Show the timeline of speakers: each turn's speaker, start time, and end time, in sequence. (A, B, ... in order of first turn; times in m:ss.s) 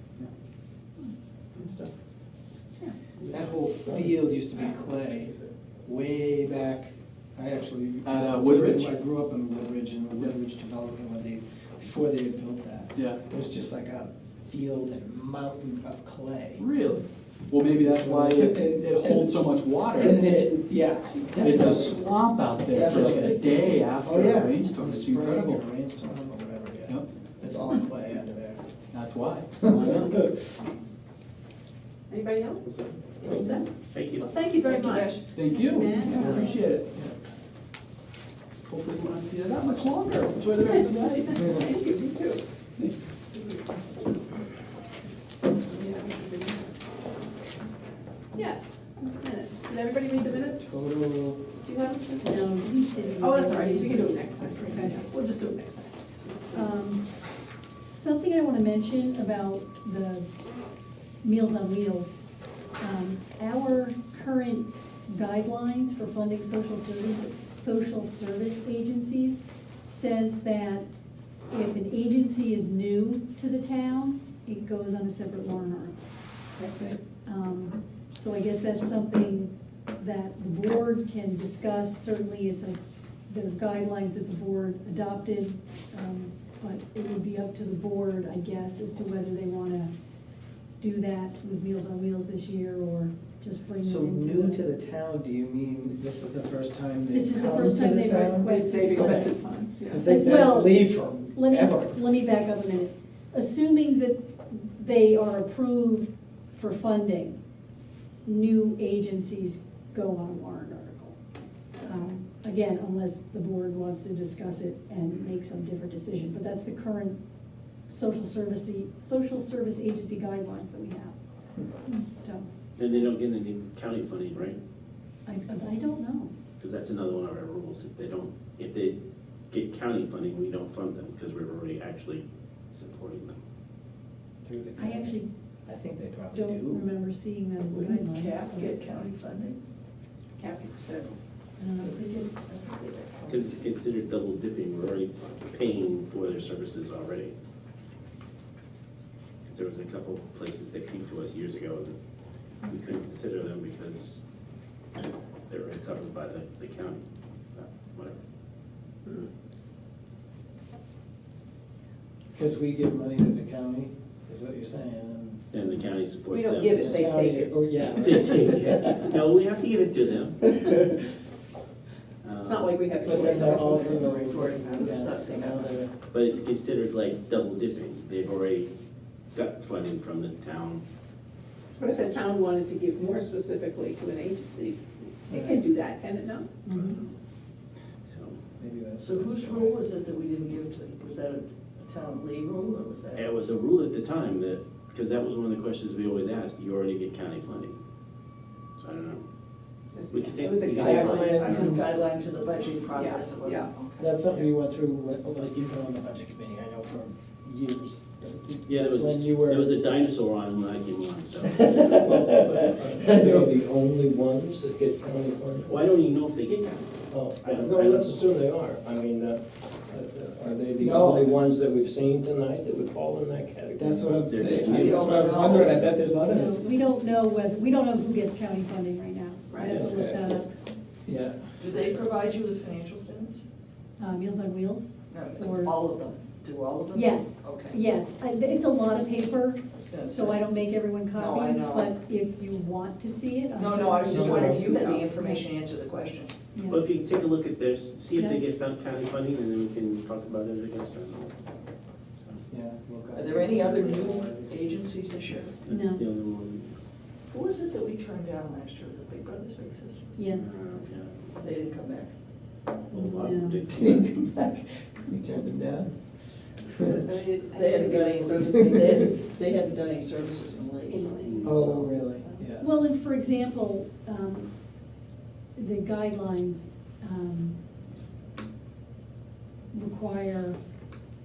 0:03.3-0:05.3 A
0:03.4-0:04.0 B
0:05.8-0:16.7 A
0:08.0-0:09.0 C
0:12.9-0:13.2 C
0:16.6-0:20.2 C
0:17.8-0:21.9 A
0:21.3-0:21.8 D
0:21.4-0:25.6 C
0:22.7-0:28.6 A
0:22.9-0:23.6 E
0:28.9-0:30.3 C
0:29.6-0:30.2 A
0:32.1-0:33.6 D
0:32.6-0:34.3 F
0:34.2-0:35.2 D
0:34.6-0:35.2 E
0:35.3-0:36.9 C
0:35.5-0:36.6 G
0:35.9-0:36.5 D
0:38.7-0:41.4 C
0:41.4-0:42.4 D
0:45.7-0:46.9 D
0:48.3-0:50.7 D
0:50.2-0:51.5 A
0:51.6-0:52.6 D
0:52.2-0:54.8 G
0:53.1-0:55.9 D
0:56.5-0:57.0 G
0:57.7-1:00.3 G
1:01.2-1:02.2 G
1:02.8-1:10.8 G
1:11.5-1:16.0 G
1:16.7-1:29.9 G
1:30.8-1:34.6 G
1:33.8-1:39.3 A
1:37.1-1:39.3 G
1:38.4-1:40.0 D
1:39.8-1:42.0 A
1:40.0-1:47.4 G
1:48.2-1:51.2 G
1:51.8-1:57.2 G
1:55.1-1:55.3 F
1:57.9-2:01.1 G
2:01.8-2:02.5 G
2:02.8-2:04.6 F
2:05.2-2:06.3 G
2:06.6-2:13.4 F
2:14.4-2:16.8 A
2:14.8-2:15.3 G
2:16.3-2:18.7 G
2:17.7-2:19.6 E
2:20.4-2:21.2 D
2:21.6-2:22.2 G
2:21.8-2:23.7 E
2:23.3-2:27.3 F
2:29.5-2:32.0 F
2:32.6-2:34.2 F
2:35.5-2:37.0 F
2:37.5-2:38.2 F
2:42.3-2:45.7 A
2:45.5-2:46.8 F
2:46.3-2:48.2 D
2:46.7-2:49.1 A
2:47.8-2:50.8 F
2:52.2-2:52.8 F
2:52.4-2:54.1 D
2:53.0-2:55.8 E
2:53.0-2:55.9 A
2:56.1-2:58.7 F
2:59.3-3:00.8 F
3:01.8-3:06.6 D
3:05.3-3:05.6 A
3:06.6-3:07.0 G
3:06.7-3:07.1 F
3:08.0-3:08.4 F
3:08.6-3:09.8 A
3:09.0-3:13.3 E
3:13.1-3:17.8 F
3:18.8-3:19.2 F
3:19.9-3:21.8 D
3:20.1-3:22.2 F
3:20.7-3:21.8 A
3:21.5-3:24.0 E
3:22.9-3:23.7 D
3:24.0-3:29.7 A
3:28.6-3:32.4 F
3:31.6-3:33.5 A
3:31.8-3:35.8 B
3:35.6-3:38.3 F
3:37.1-3:44.0 B
3:40.8-3:41.4 A
3:43.8-3:46.7 A
3:44.2-3:45.9 F
3:44.5-3:45.8 E
3:46.2-3:50.5 G
3:49.5-3:49.8 D
3:49.9-3:50.2 B
3:51.0-3:51.5 A
3:51.6-3:53.4 E
3:54.0-3:55.8 G
3:55.1-3:57.8 E
3:56.9-4:05.4 G
3:59.7-4:00.4 E
4:01.1-4:01.9 E
4:03.5-4:06.3 E
4:04.1-4:05.0 D
4:04.1-4:04.6 A
4:06.5-4:06.8 G
4:06.6-4:11.4 F
4:08.1-4:08.4 G
4:12.5-4:14.6 A
4:13.1-4:15.5 E
4:15.6-4:16.8 F
4:15.7-4:16.0 G
4:17.3-4:20.2 E
4:20.2-4:20.5 G
4:20.3-4:21.5 F
4:21.4-4:22.1 E
4:22.9-4:24.1 F
4:22.9-4:23.6 G
4:23.7-4:26.0 A
4:26.6-4:27.1 A
4:27.0-4:29.0 D
4:27.5-4:31.9 E
4:28.5-4:29.0 A
4:30.9-4:32.4 D
4:31.2-4:31.5 F
4:31.4-4:32.7 A
4:32.6-4:34.5 G
4:35.6-4:37.6 G
4:39.7-4:40.6 G